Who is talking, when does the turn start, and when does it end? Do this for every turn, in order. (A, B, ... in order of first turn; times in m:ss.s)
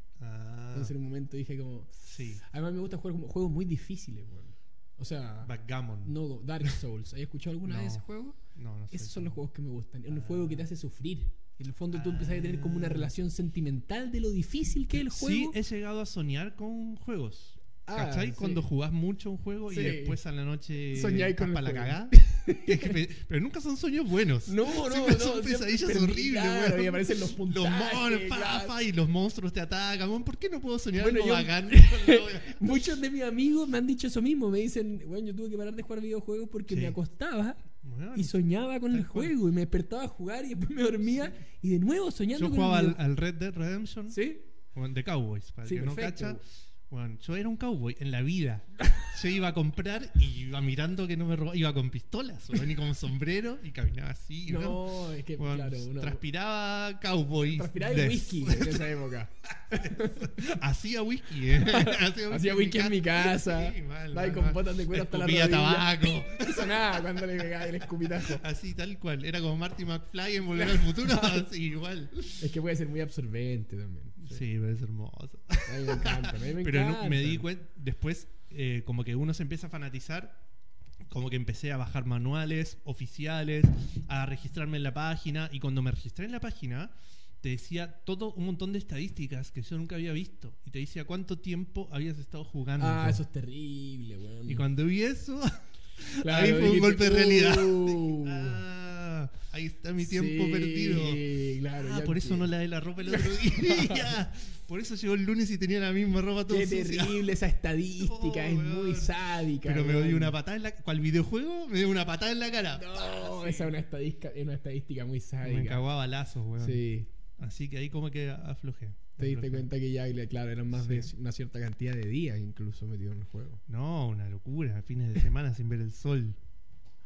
0:00.2-0:00.9 A
0:00.7-0:08.4 B
0:02.1-0:02.4 A
0:05.4-0:06.8 A
0:07.6-0:09.4 A
0:08.9-0:15.6 B
0:10.1-0:10.7 A
0:11.9-0:13.1 A
0:15.0-0:32.9 A
0:17.9-0:18.6 B
0:19.7-0:20.2 B
0:20.9-0:23.0 B
0:24.4-0:28.7 B
0:31.0-0:37.6 B
0:36.7-0:37.0 A
0:37.8-0:38.4 A
0:38.1-0:43.0 B
0:38.9-0:39.3 A
0:42.4-0:54.8 A
0:44.1-0:44.4 B
0:45.6-0:46.4 B
0:54.5-0:56.2 B
0:55.4-0:58.9 A
0:57.5-1:00.6 B
0:59.5-1:12.5 A
1:01.5-1:08.4 B
1:10.6-1:11.5 B
1:12.4-1:14.4 B
1:14.2-1:20.4 A
1:15.6-1:17.5 B
1:21.1-1:33.2 A
1:32.8-1:34.7 B
1:34.5-1:41.2 A
1:36.2-1:38.6 B
1:40.0-1:42.5 B
1:41.8-1:47.4 A
1:43.1-1:44.1 B
1:46.5-1:50.4 B
1:48.0-1:53.7 A
1:52.7-1:55.9 B
1:55.4-1:56.9 A
1:56.6-1:57.1 B
1:57.4-1:59.7 A
1:59.2-2:03.6 B
2:00.7-2:01.1 A
2:03.7-2:06.4 A